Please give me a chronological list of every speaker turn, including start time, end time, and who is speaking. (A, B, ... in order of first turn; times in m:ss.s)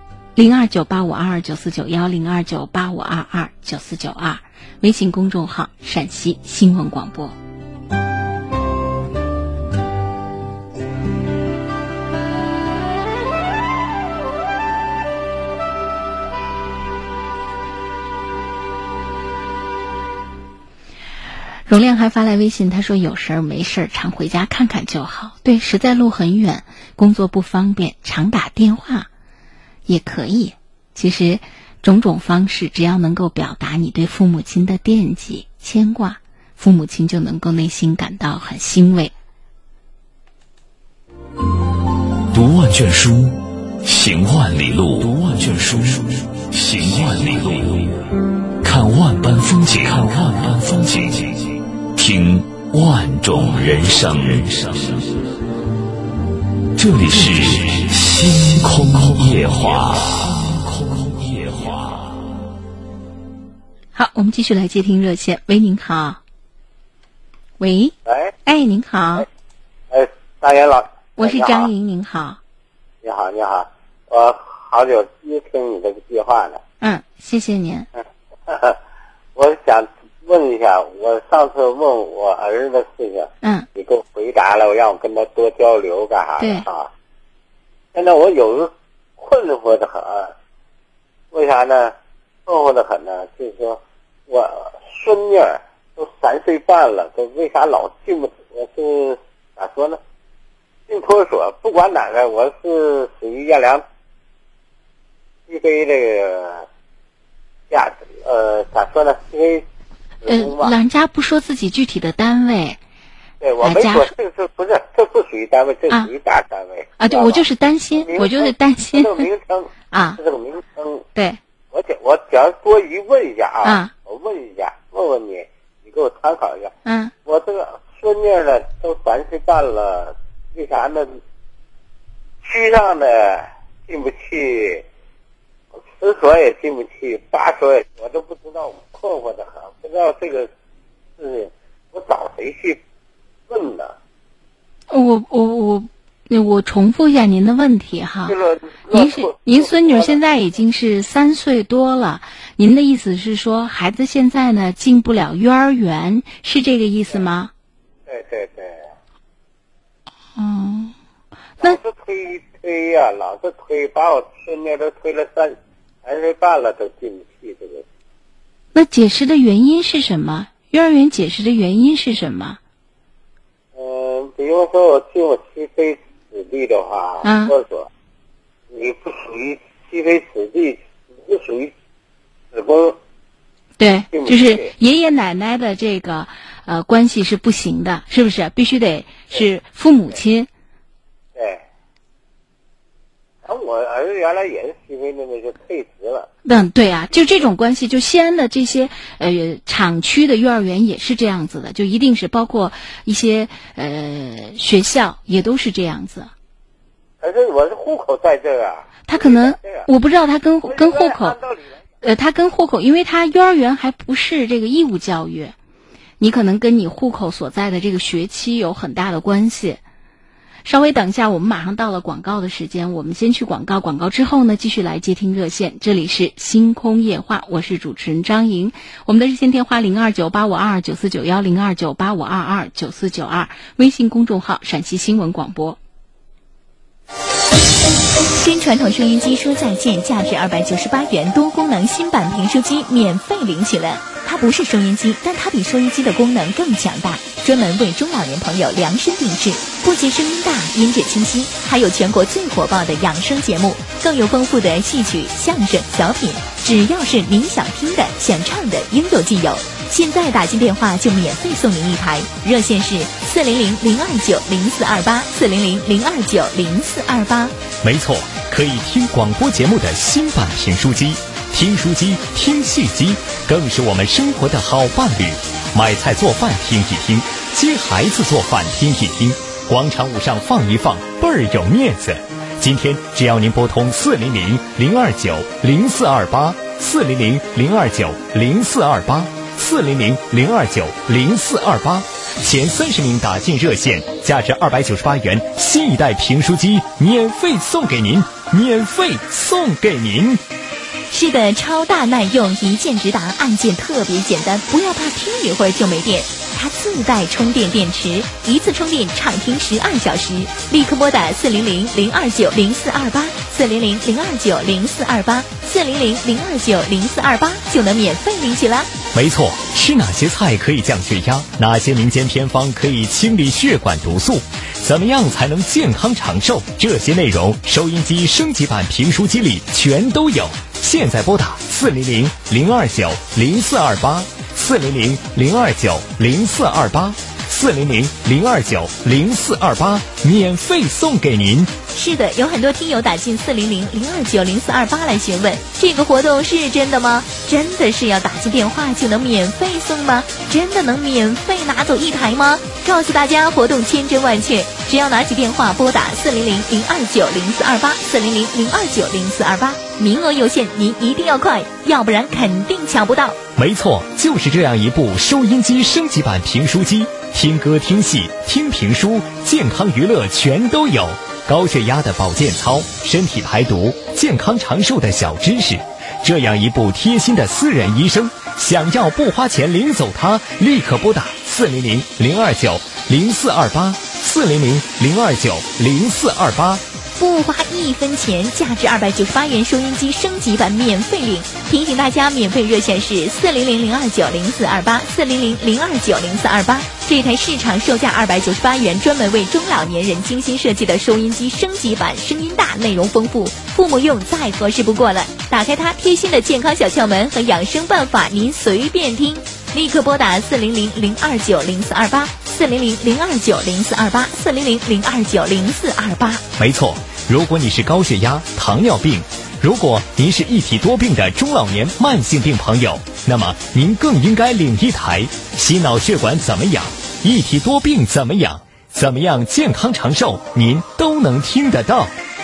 0:00.4-0:07.3 A
0:21.7-0:29.1 A
0:29.9-0:39.1 A
0:42.3-0:48.0 B
0:48.6-0:55.2 B
0:56.8-1:02.2 B
1:03.9-1:06.2 A
1:07.6-1:07.9 A
1:08.0-1:08.3 C
1:08.4-1:09.2 A
1:09.9-1:11.7 C
1:11.2-1:12.4 A
1:13.0-1:16.6 C
1:16.8-1:17.9 A
1:18.5-1:18.8 C
1:19.4-1:26.9 C
1:23.4-1:23.7 A
1:26.4-1:26.7 A
1:27.9-1:30.3 C
1:31.3-1:31.9 C
1:32.4-1:40.0 C
1:40.9-1:43.8 C
1:45.5-1:46.6 C
1:47.7-1:49.6 C
1:50.2-1:50.7 C
1:50.2-1:52.8 A
1:53.4-2:01.0 C
1:53.6-1:54.1 A
1:57.0-1:59.3 A
1:59.9-2:00.2 A
2:01.7-2:06.7 C
2:03.6-2:03.9 A
2:06.8-2:07.1 A
2:07.2-2:11.2 C
2:12.4-2:14.8 C
2:15.9-2:20.5 C
2:21.2-2:22.8 C
2:23.5-2:23.9 C
2:24.9-2:28.4 A
2:28.3-2:30.2 C
2:28.9-2:37.5 A
2:38.1-2:38.8 C
2:40.4-2:40.9 A
2:41.6-2:47.8 C
2:48.7-2:52.6 A
2:53.7-2:57.9 C
2:57.2-2:57.5 A
2:58.7-3:01.7 C
3:02.5-3:03.0 C
3:03.8-3:10.5 A
3:04.1-3:04.7 C
3:11.3-3:11.6 C
3:13.4-3:16.3 C
3:16.4-3:26.3 A
3:27.2-3:29.9 C
3:29.1-3:31.4 A
3:30.6-3:31.7 C
3:32.0-3:35.5 A
3:36.2-3:39.8 A
3:40.6-3:55.8 A
3:58.3-4:27.5 D
4:27.8-5:00.4 E
5:01.1-5:18.9 D
5:19.1-5:41.7 E
5:41.9-6:03.4 D
6:03.6-6:26.8 E
6:27.1-6:56.4 D
6:56.6-7:12.1 E